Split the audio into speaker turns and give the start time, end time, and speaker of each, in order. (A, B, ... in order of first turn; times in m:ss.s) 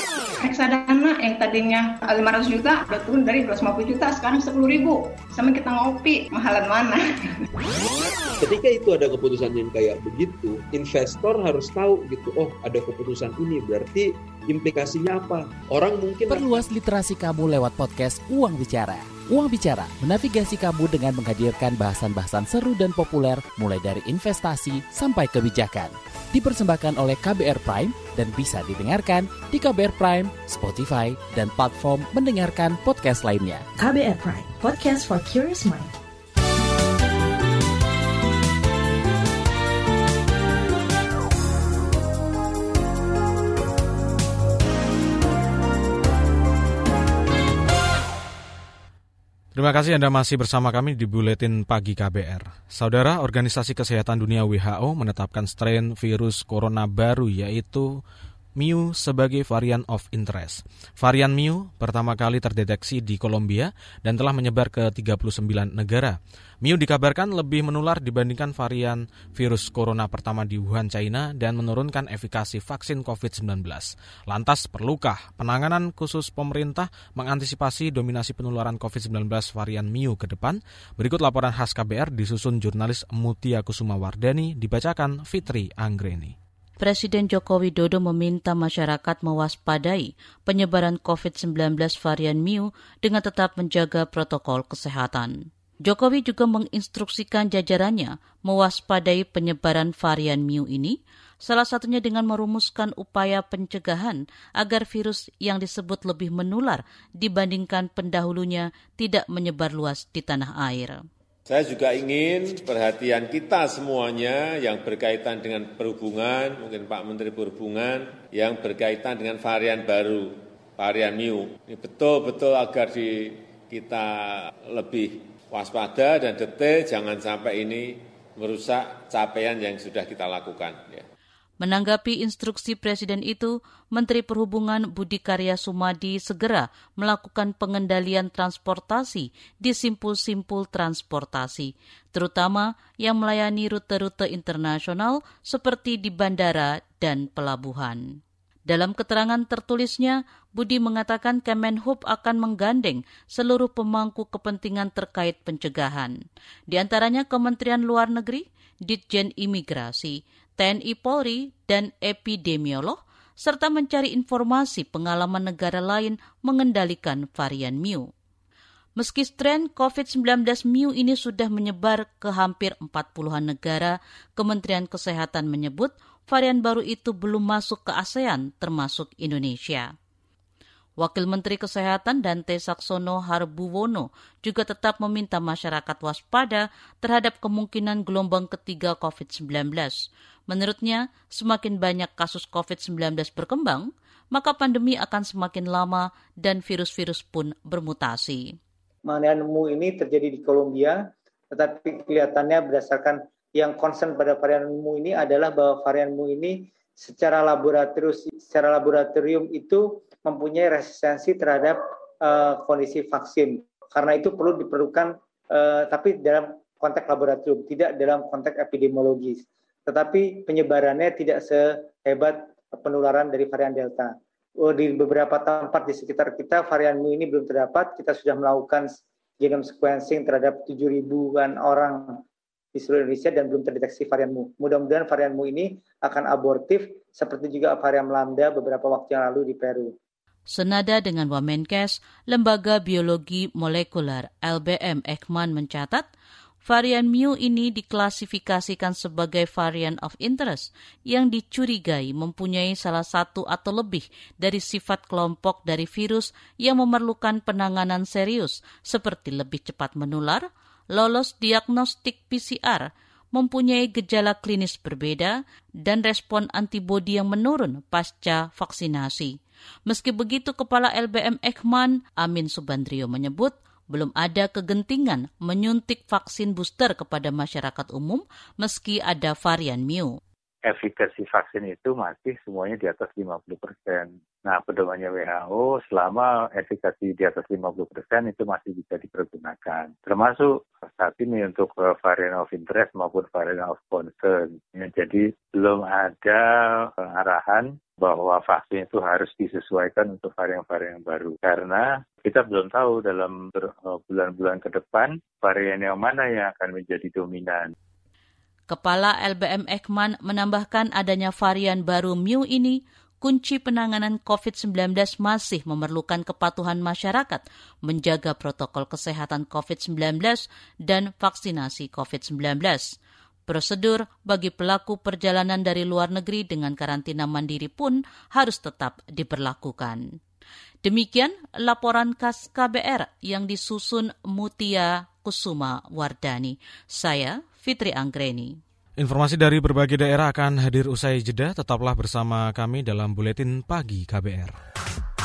0:00.4-0:07.3 A
0:08.4-0:16.6 B
0:16.3-0:33.7 C
0:33.8-0:35.9 D
0:49.6-0:58.0 E
0:58.6-1:26.4 E
1:26.8-1:51.0 F
1:51.5-2:11.0 G
2:11.6-2:36.1 F
2:36.7-2:48.1 F
2:49.0-2:59.9 F
3:01.0-3:18.6 F
3:19.1-3:21.0 H
3:21.5-3:52.2 H
3:52.7-3:59.9 H
4:00.5-4:06.1 F
4:06.6-4:29.4 F
4:29.9-4:40.1 F
4:40.6-5:07.7 I
5:08.7-5:23.0 F
5:23.5-5:30.0 F
5:30.8-5:38.6 F
5:39.0-5:44.5 E